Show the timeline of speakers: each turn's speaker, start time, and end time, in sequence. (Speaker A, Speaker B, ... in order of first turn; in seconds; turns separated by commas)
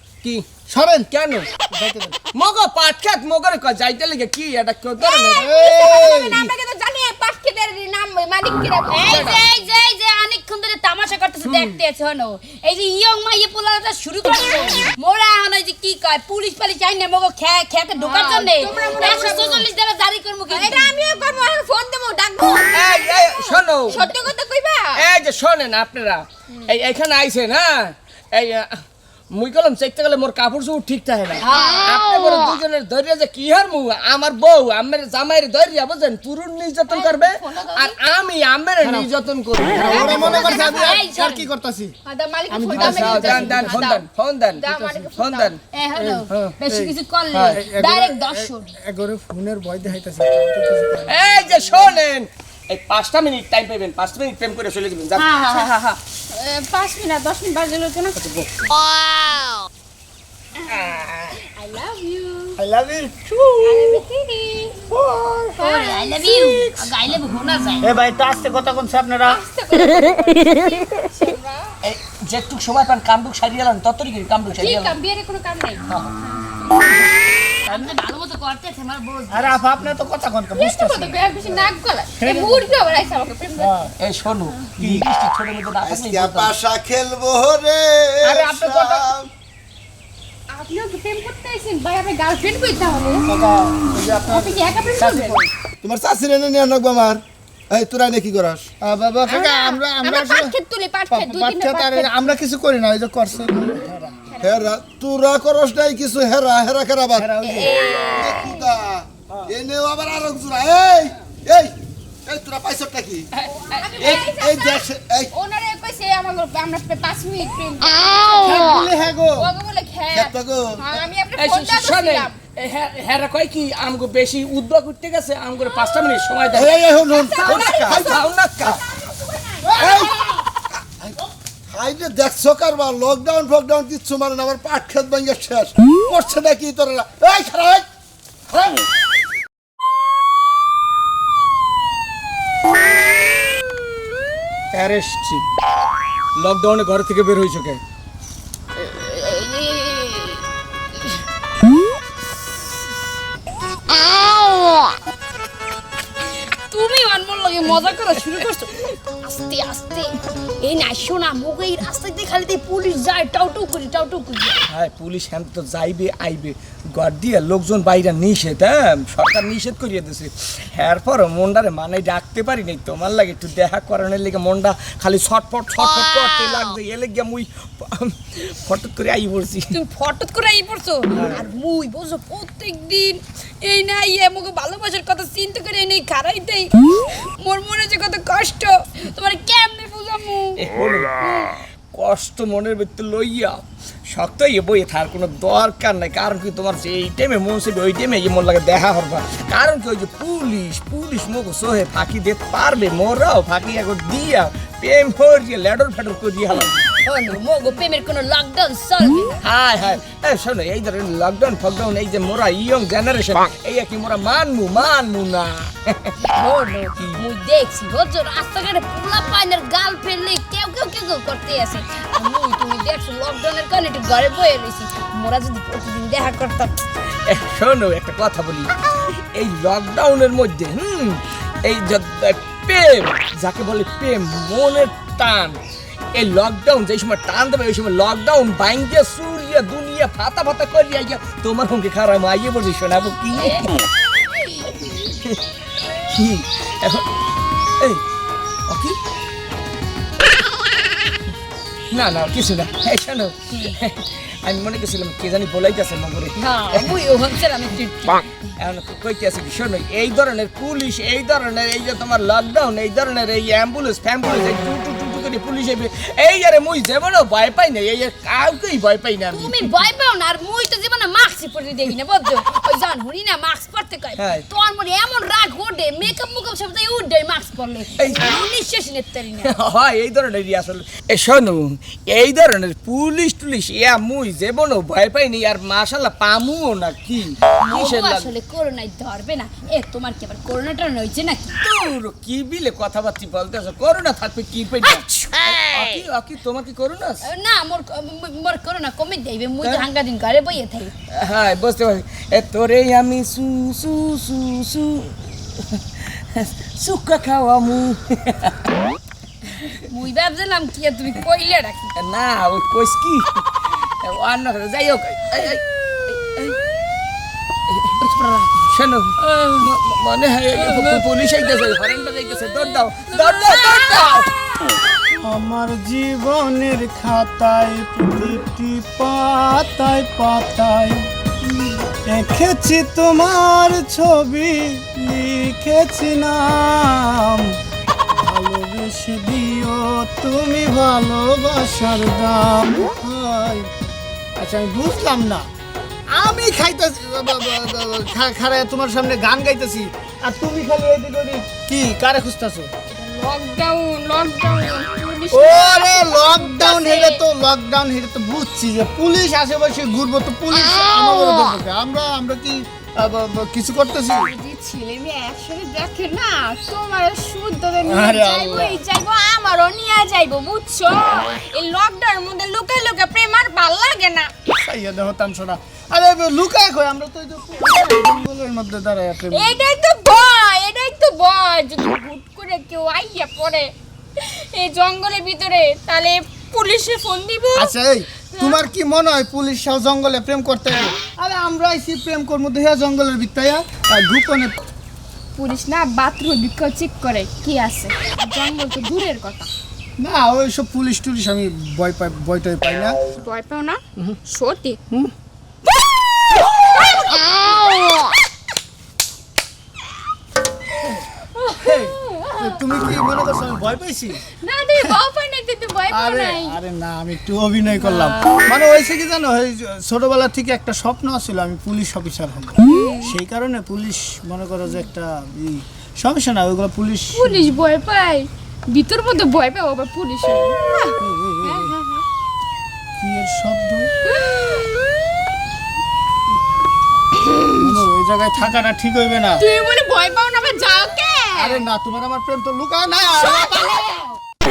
Speaker A: 0.2-0.5, Speaker B: 0.7-1.1, Speaker A: 1.1-1.5, Speaker B: 1.7-2.2, Speaker A: 2.3-5.5, Speaker C: 5.0-9.4, Speaker B: 5.3-6.5, Speaker D: 8.9-21.0, Speaker A: 9.1-9.4, Speaker B: 11.4-11.8, Speaker C: 18.0-19.7, Speaker C: 20.5-25.1, Speaker D: 22.1-22.5, Speaker A: 22.7-24.1, Speaker D: 23.9-24.4, Speaker A: 24.9-40.5, Speaker D: 31.4-31.8, Speaker C: 36.9-38.0, Speaker B: 38.8-39.1, Speaker B: 39.8-41.9, Speaker C: 39.9-41.1, Speaker D: 40.2-41.5, Speaker C: 42.0-45.6, Speaker B: 42.5-43.9, Speaker A: 42.7-45.6, Speaker B: 44.7-45.1, Speaker D: 45.6-48.7, Speaker B: 45.9-52.0, Speaker A: 47.3-47.6, Speaker A: 51.1-56.0, Speaker C: 55.1-58.5, Speaker A: 60.6-61.4, Speaker C: 60.7-62.6, Speaker B: 62.6-63.9, Speaker C: 63.6-64.9, Speaker B: 64.9-65.5, Speaker C: 65.6-66.9, Speaker D: 65.6-67.9, Speaker B: 67.8-69.4, Speaker C: 69.2-71.7, Speaker A: 71.8-75.0, Speaker C: 74.5-76.6, Speaker D: 77.6-79.7, Speaker B: 77.7-78.0, Speaker B: 79.3-82.9, Speaker C: 80.5-83.8, Speaker B: 83.5-83.9, Speaker A: 84.0-86.6, Speaker E: 85.8-89.3, Speaker B: 88.3-89.1, Speaker C: 90.5-93.2, Speaker B: 93.3-95.5, Speaker C: 94.2-95.4, Speaker E: 95.8-98.8, Speaker B: 98.8-100.6, Speaker C: 99.2-102.3, Speaker B: 101.1-104.2, Speaker C: 104.3-104.7, Speaker E: 104.4-107.4, Speaker B: 107.2-107.9, Speaker C: 107.4-108.7, Speaker E: 108.1-111.8, Speaker E: 112.2-113.3, Speaker C: 113.4-118.7, Speaker E: 114.0-115.3, Speaker B: 118.4-119.5, Speaker C: 119.4-122.3, Speaker E: 120.1-121.0, Speaker A: 121.3-128.8, Speaker E: 126.5-128.1, Speaker C: 127.1-130.3, Speaker B: 129.6-130.2, Speaker E: 129.8-130.1, Speaker E: 131.0-137.9, Speaker A: 144.7-145.5, Speaker A: 146.4-147.8, Speaker D: 148.8-150.4, Speaker D: 156.2-164.6, Speaker A: 157.7-158.2, Speaker A: 164.7-179.8, Speaker C: 179.7-181.2, Speaker A: 181.1-181.4, Speaker D: 181.2-186.7, Speaker C: 186.3-190.6, Speaker D: 187.4-189.6, Speaker A: 190.6-206.9, Speaker D: 207.1-209.4, Speaker A: 209.4-216.2, Speaker D: 216.2-226.8, Speaker A: 216.9-217.2, Speaker A: 227.3-235.6, Speaker A: 236.1-243.8, Speaker D: 243.3-243.7, Speaker D: 244.3-244.6, Speaker A: 244.6-245.4, Speaker A: 246.1-247.1, Speaker A: 248.7-249.0, Speaker A: 251.9-256.9, Speaker D: 253.5-253.8, Speaker D: 256.4-258.5, Speaker A: 258.6-269.7, Speaker D: 269.3-279.5, Speaker A: 274.2-274.4, Speaker A: 277.9-278.3, Speaker A: 279.4-288.3, Speaker D: 287.6-291.6, Speaker A: 291.6-297.2, Speaker D: 294.9-295.3, Speaker D: 297.2-300.9, Speaker A: 299.6-299.9, Speaker A: 301.1-308.7, Speaker D: 309.8-311.9, Speaker A: 311.9-316.6, Speaker A: 317.7-324.3, Speaker B: 325.1-331.1, Speaker B: 332.1-337.6, Speaker B: 338.1-343.7, Speaker B: 344.4-345.5, Speaker B: 346.1-352.7, Speaker C: 352.9-357.2, Speaker B: 355.3-364.3, Speaker C: 364.2-374.3, Speaker B: 367.8-368.8, Speaker B: 374.6-379.6, Speaker C: 379.3-387.7, Speaker B: 387.6-394.6, Speaker C: 388.3-388.6, Speaker C: 395.3-399.5, Speaker B: 400.0-403.0, Speaker C: 403.2-404.8, Speaker C: 406.6-408.0, Speaker C: 411.3-412.6, Speaker B: 411.6-414.2, Speaker C: 414.4-416.6, Speaker B: 415.9-427.6, Speaker C: 417.8-418.4, Speaker C: 422.6-423.2, Speaker C: 427.1-432.0, Speaker B: 431.0-431.8, Speaker B: 433.0-433.9, Speaker C: 434.1-434.7, Speaker B: 437.6-439.4, Speaker C: 439.4-441.6, Speaker B: 441.3-443.9, Speaker C: 443.5-443.9